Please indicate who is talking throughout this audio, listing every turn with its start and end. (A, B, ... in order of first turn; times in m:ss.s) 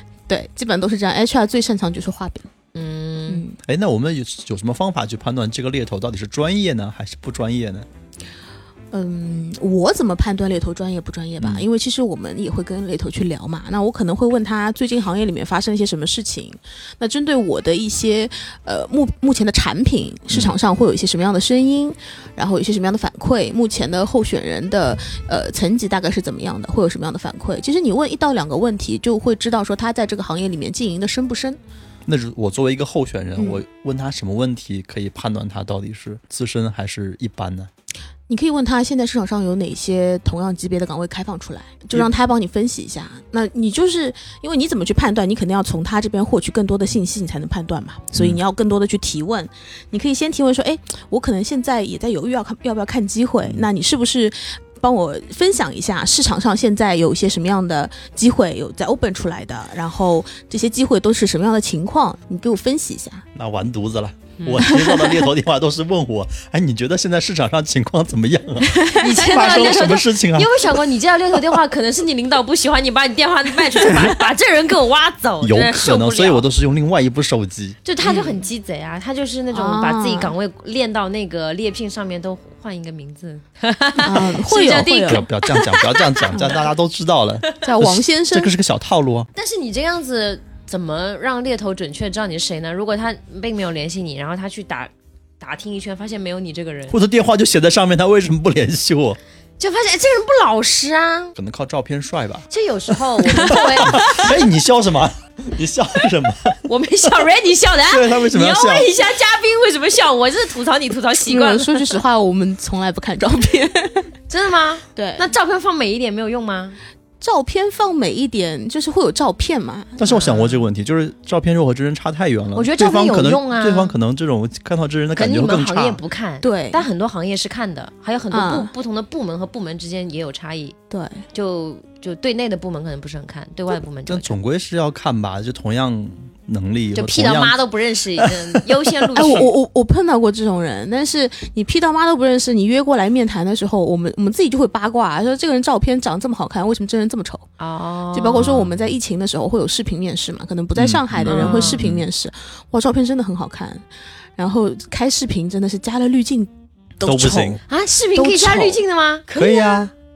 0:00.3-0:02.5 A
0:02.7-0:03.4 B
0:03.3-0:03.6 A
0:03.7-0:07.9 C
0:08.9-0:31.6 A
0:11.4-0:11.7 C
0:32.1-0:37.7 C
0:33.4-0:33.6 A
0:38.3-1:03.2 A
1:03.4-1:10.7 C
1:04.4-1:04.6 B
1:04.6-1:05.3 A
1:08.7-1:09.0 A
1:08.9-1:16.5 B
1:15.4-1:17.8 C
1:17.8-1:26.4 B
1:18.0-1:18.4 A
1:19.5-1:20.4 A
1:24.0-1:25.3 A
1:25.1-1:29.3 C
1:26.3-1:26.6 A
1:27.6-1:28.5 A
1:29.4-1:37.0 B
1:36.9-1:39.2 C
1:39.6-1:41.4 B
1:41.4-1:42.5 C
1:42.5-1:44.3 B
1:43.3-1:46.6 C
1:46.6-1:52.0 B
1:47.9-1:48.9 C
1:51.3-1:54.1 A
1:54.3-1:56.8 B
1:55.0-1:55.3 A
1:57.2-2:00.6 A
2:00.0-2:06.0 C
2:02.6-2:03.9 B
2:05.2-2:10.8 B
2:06.4-2:06.9 A
2:08.3-2:08.7 A
2:10.9-2:11.2 A
2:11.3-2:14.4 B
2:14.1-2:17.6 C
2:17.0-2:19.5 B
2:19.1-2:27.5 A
2:27.6-2:28.7 B
2:28.1-2:33.8 A
2:30.8-2:32.1 C
2:31.3-2:31.8 B
2:34.4-2:37.6 A
2:37.0-2:37.6 C
2:37.7-2:39.9 B
2:38.2-2:38.8 A
2:39.4-2:39.9 C